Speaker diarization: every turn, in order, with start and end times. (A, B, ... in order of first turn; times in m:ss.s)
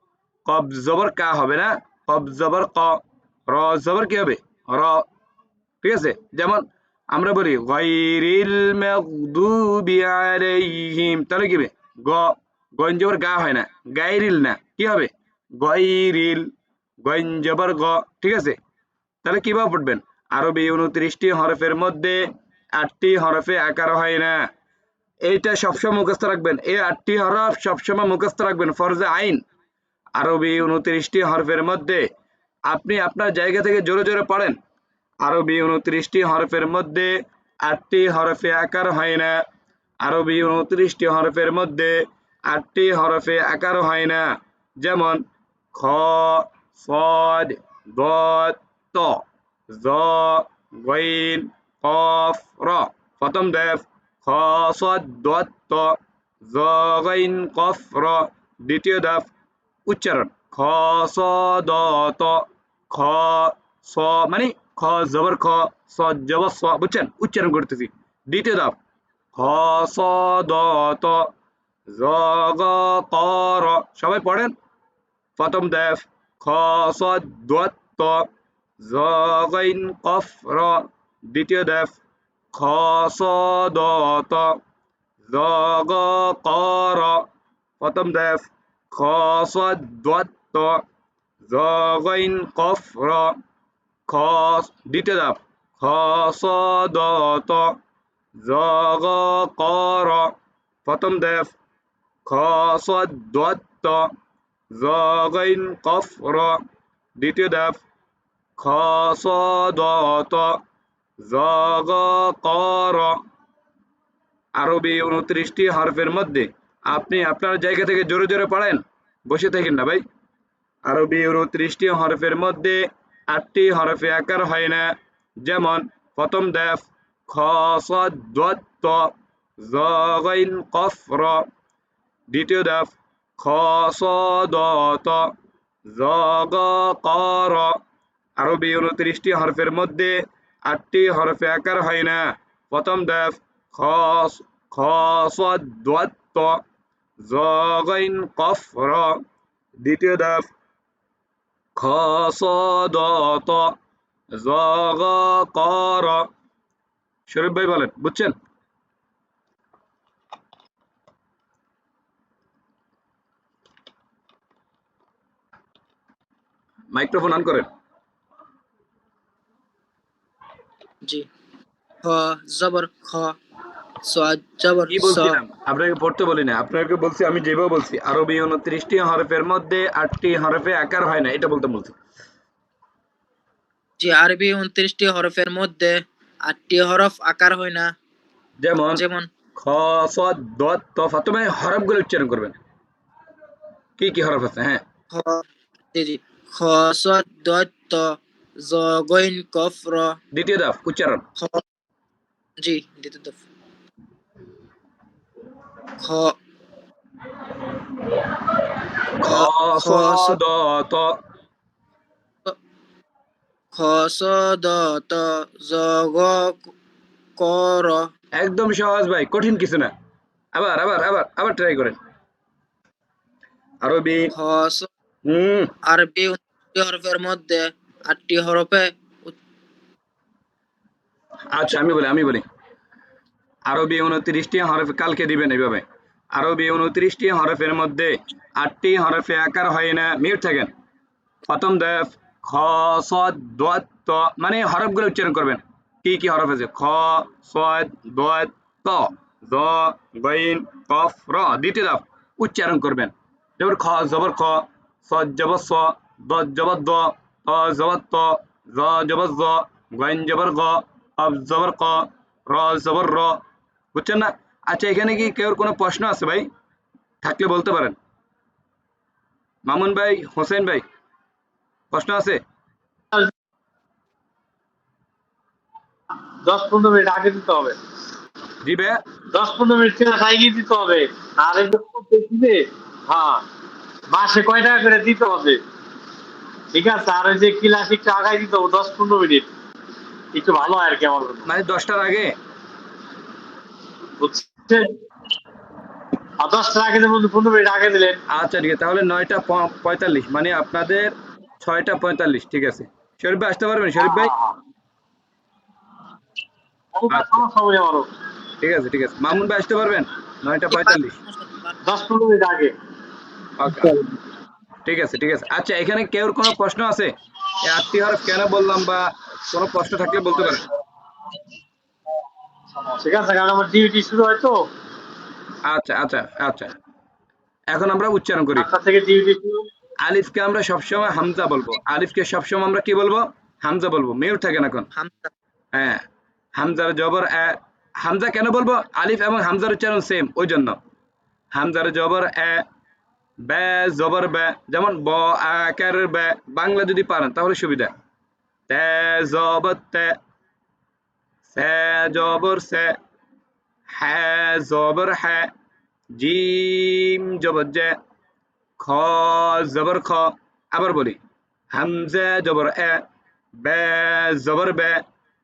0:00.4-0:05.1 A
0:05.8-0:16.5 A
0:17.0-0:18.6 A
0:19.2-0:24.5 A
0:25.2-0:29.4 A
0:30.2-0:32.1 A
0:32.7-0:34.6 A
0:35.2-0:39.4 A
0:40.0-0:45.2 A
0:45.7-0:59.3 A
0:59.9-1:08.8 A
1:09.3-1:11.3 A
1:11.9-1:14.5 A
1:15.4-1:18.3 A
1:18.8-1:22.0 A
1:22.5-1:24.6 A
1:25.2-1:27.2 A
1:27.8-1:30.8 A
1:31.4-1:33.4 A
1:34.1-1:37.8 A
1:38.4-1:40.3 A
1:40.8-1:41.5 A
1:42.2-1:44.1 A
1:44.7-1:46.6 A
1:47.2-1:47.8 A
1:48.6-1:50.6 A
1:51.2-1:53.2 A
1:54.6-2:00.0 A
2:00.8-2:11.4 A
2:12.3-2:15.3 A
2:15.9-2:17.8 A
2:18.4-2:26.6 A
2:27.2-2:29.2 A
2:29.8-2:30.5 A
2:31.8-2:33.7 A
2:34.4-2:36.3 A
2:37.3-2:38.3 A
2:46.9-2:47.7 A
2:52.0-2:53.4 B
2:54.0-2:55.4 B
2:54.9-3:02.0 A
3:04.0-3:07.9 B
3:08.6-3:09.0 A
3:08.9-3:09.3 B
3:09.6-3:12.5 A
3:14.0-3:14.8 A
3:15.1-3:20.2 B
3:20.3-3:21.2 A
3:21.4-3:21.6 B
3:22.6-3:23.4 B
3:26.0-3:26.3 B
3:29.2-3:31.2 A
3:29.2-3:30.4 B
3:33.7-3:36.7 B
3:37.4-3:38.1 B
3:38.4-3:39.9 A
3:40.5-3:42.0 A
3:43.8-3:44.3 A
3:44.3-3:44.9 B
3:45.2-3:45.7 A
3:45.8-3:49.4 B
3:51.5-3:52.4 A
3:53.7-4:00.7 A
4:01.4-4:23.4 A
4:23.9-4:26.5 A
4:27.2-4:28.0 A
4:29.6-4:30.8 A
4:31.9-4:32.4 A
4:36.4-4:37.8 C
4:38.6-4:39.0 A
4:39.3-4:43.4 C
4:44.1-4:45.6 C
4:46.7-4:49.5 C
4:50.3-4:51.4 C
4:51.4-4:52.3 A
4:54.2-4:55.0 C
4:56.4-4:58.2 C
4:58.3-5:04.3 A
5:04.0-5:04.6 C
5:06.9-5:08.1 C
5:07.1-5:07.4 A
5:08.6-5:11.2 A
5:10.7-5:11.7 B
5:11.8-5:12.7 C
5:13.6-5:14.0 A
5:14.8-5:20.6 A
5:22.8-5:24.6 C
5:25.6-5:26.7 A
5:27.7-5:28.7 A
5:28.6-5:29.7 C
5:30.0-5:34.9 A
5:35.0-5:35.3 B
5:35.7-5:36.0 A
5:36.6-5:40.8 A
5:41.5-5:42.6 A
5:43.4-5:47.9 A
5:48.7-5:50.2 A
5:51.5-5:52.9 A
5:53.9-5:55.5 A
5:56.1-5:58.0 A
5:58.8-6:01.2 A
6:01.7-6:03.0 A
6:03.6-6:05.0 A